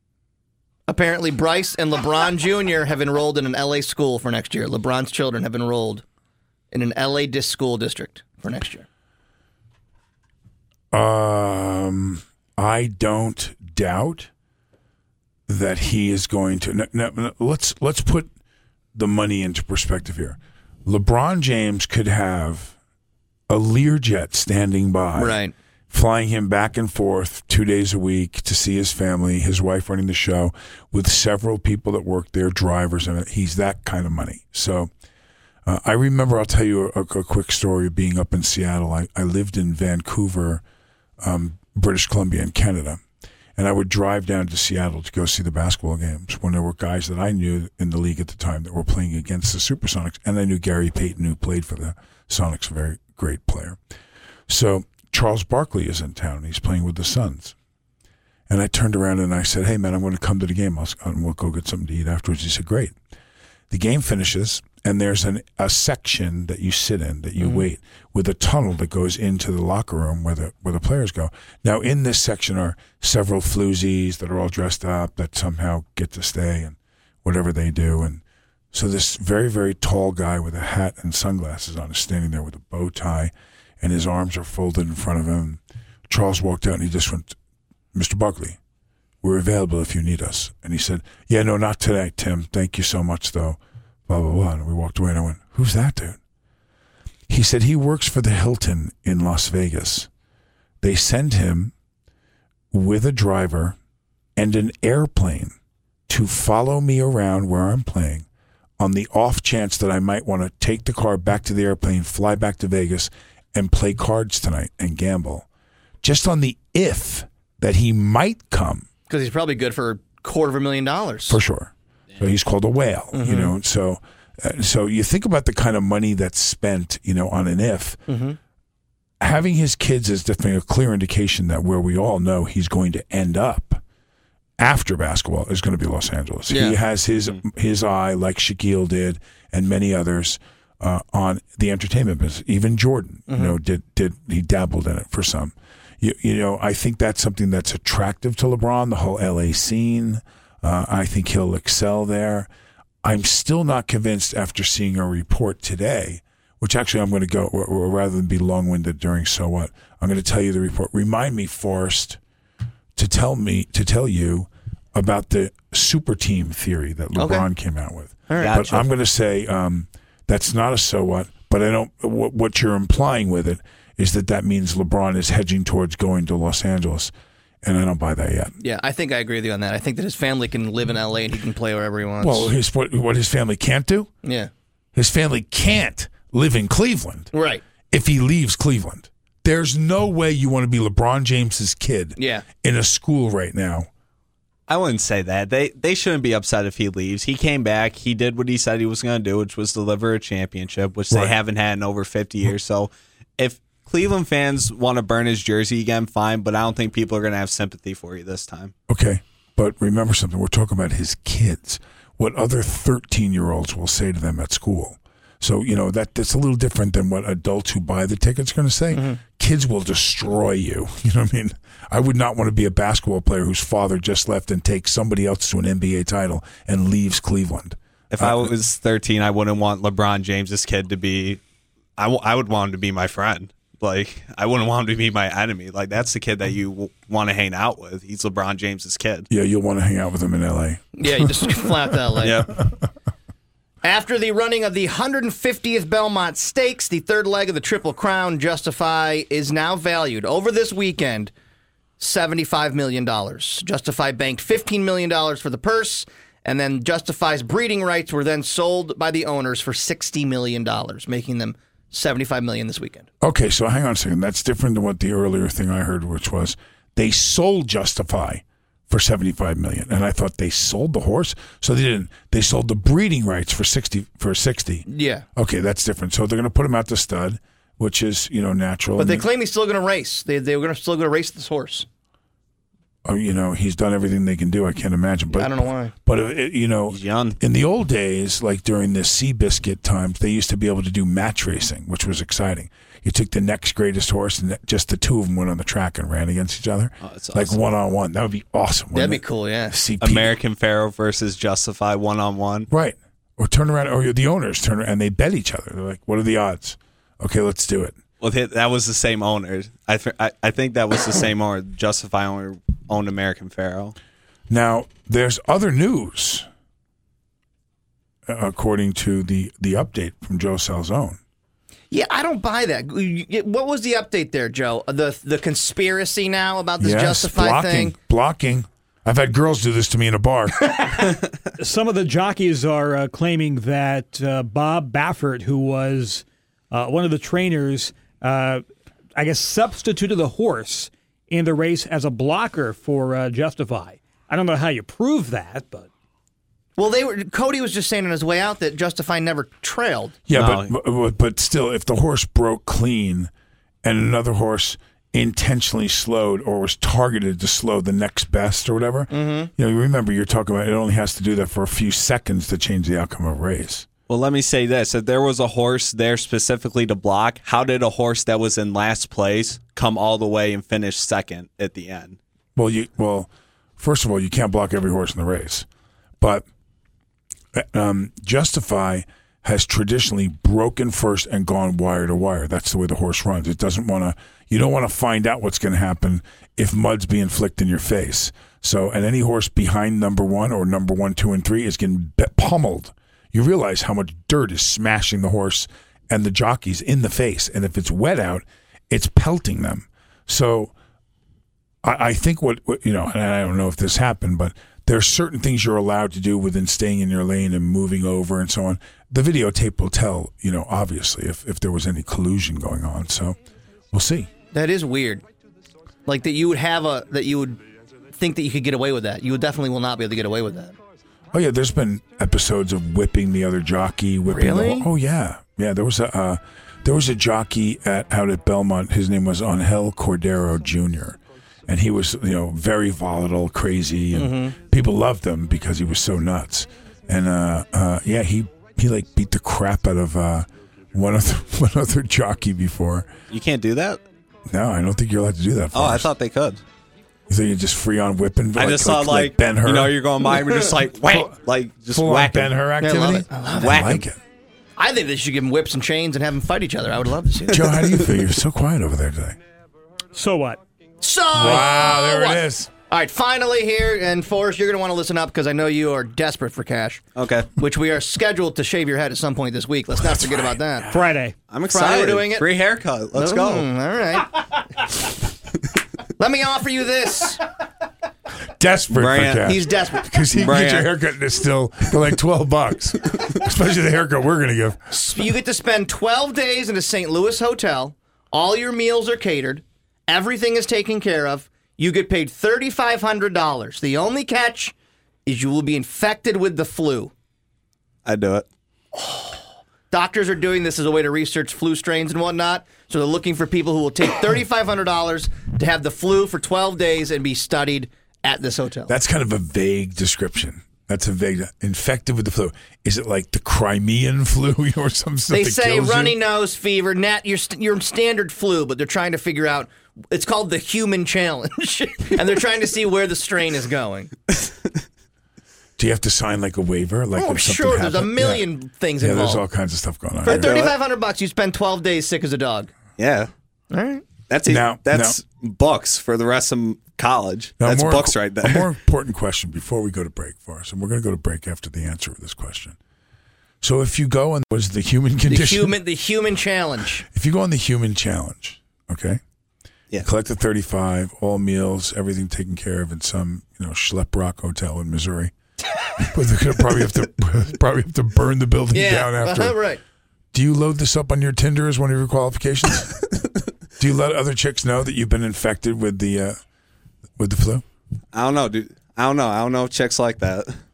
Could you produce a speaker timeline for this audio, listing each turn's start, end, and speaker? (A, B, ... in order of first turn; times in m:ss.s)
0:00.9-0:06.0 A
0:06.7-0:08.9 A
0:10.9-0:14.3 B
0:15.5-0:18.3 B
0:18.9-0:22.8 B
0:23.5-0:25.4 B
0:25.2-0:25.5 A
0:25.9-0:34.9 B
0:35.6-0:40.6 B
0:41.2-0:43.0 B
0:43.6-0:53.8 B
0:54.5-0:57.5 B
0:58.5-1:03.0 B
1:03.7-1:27.4 B
1:27.9-1:28.6 B
1:29.2-1:36.2 B
1:37.3-1:40.1 B
1:40.8-1:41.7 B
1:42.7-1:43.8 B
1:44.4-1:45.5 B
1:46.1-1:48.2 B
1:48.8-1:55.5 B
1:56.0-1:58.9 B
1:59.1-2:01.4 A
2:01.3-2:08.0 B
2:03.1-2:03.5 A
2:08.1-2:08.4 A
2:09.2-2:13.8 B
2:14.6-2:32.5 B
2:16.5-2:16.8 A
2:23.3-2:23.6 A
2:33.0-2:42.2 B
2:43.0-2:57.1 B
2:47.2-2:47.5 A
2:48.3-2:48.7 A
2:48.4-2:48.8 C
2:57.6-2:58.5 B
2:58.6-3:02.5 A
3:02.2-3:04.1 B
3:04.2-3:04.5 A
3:04.9-3:07.3 B
3:07.3-3:07.6 A
3:07.9-3:13.9 B
3:12.2-3:12.5 A
3:14.7-3:28.7 C
3:21.1-3:21.4 B
3:28.9-3:48.5 B
3:38.9-3:39.2 A
3:48.1-3:51.4 C
3:52.0-3:59.3 C
3:59.3-4:01.7 B
4:01.0-4:02.4 A
4:02.2-4:02.6 C
4:03.8-4:11.3 A
4:12.0-4:23.1 A
4:23.2-4:34.8 B
4:34.9-4:35.2 A
4:35.4-4:39.3 B
4:39.0-4:41.9 A
4:43.0-5:00.4 B
4:45.3-4:45.9 A
4:46.9-4:47.4 C
4:57.0-4:57.5 C
4:58.9-4:59.8 A
5:00.0-5:02.7 C
5:02.7-5:08.0 B
5:08.2-5:14.0 C
5:14.5-5:16.5 B
5:18.3-5:21.2 B
5:21.9-5:28.0 A
5:26.8-5:30.9 B
5:31.6-5:38.6 D
5:39.2-5:45.9 D
5:46.8-5:50.2 A
5:50.3-5:53.3 B
5:50.3-5:50.7 C
5:53.8-6:03.9 B
5:59.1-5:59.5 A
6:04.1-6:12.2 C
6:12.6-6:15.7 B
6:16.2-6:16.5 B
6:17.5-6:40.7 B
6:41.8-6:53.4 B
6:53.9-6:54.3 B
6:54.5-6:55.2 A
6:56.0-6:57.6 A
6:58.2-7:00.8 A
7:01.3-7:23.1 B
7:04.3-7:04.9 A
7:14.1-7:14.6 A
7:23.3-7:24.0 C
7:24.5-7:26.1 B
7:25.7-7:26.6 C
7:27.3-7:30.0 B
7:28.6-7:32.6 C
7:31.0-7:31.4 B
7:31.9-7:34.2 B
7:32.8-7:34.0 A
7:33.6-7:34.0 C
7:34.8-7:38.1 A
7:37.5-7:39.4 B
7:40.1-7:40.6 D
7:41.0-7:47.0 A
7:41.3-7:42.7 B
7:47.2-7:47.5 C
7:47.6-7:50.9 A
7:50.0-7:51.0 B
7:50.9-7:51.4 D
7:51.5-7:53.7 C
7:51.7-7:52.5 A
7:53.2-7:54.8 A
7:56.2-7:57.5 A
7:58.6-8:04.8 B
7:58.9-7:59.5 C
7:59.4-8:00.1 A
8:00.3-8:00.9 C
8:04.9-8:14.7 A
8:15.2-8:17.1 A
8:18.0-8:18.5 C
8:19.0-8:19.3 A
8:19.9-8:28.9 A
8:28.9-8:36.2 B
8:35.3-8:44.1 A
8:45.8-8:48.5 B
8:47.2-8:49.4 A
8:49.0-8:50.7 B
8:50.2-8:52.7 A
8:50.3-8:50.7 C
8:53.0-8:53.3 C
8:53.7-8:54.0 A
8:54.3-8:58.7 C
8:54.5-8:55.2 B
8:57.6-9:02.8 B
9:03.6-9:05.8 B
9:05.3-9:07.0 A
9:07.1-9:09.2 B
9:10.0-9:15.3 B
9:16.0-9:19.6 B
9:18.7-9:19.8 A
9:20.3-9:23.0 B
9:23.8-9:26.4 B
9:27.2-9:27.6 B
9:28.1-9:30.6 C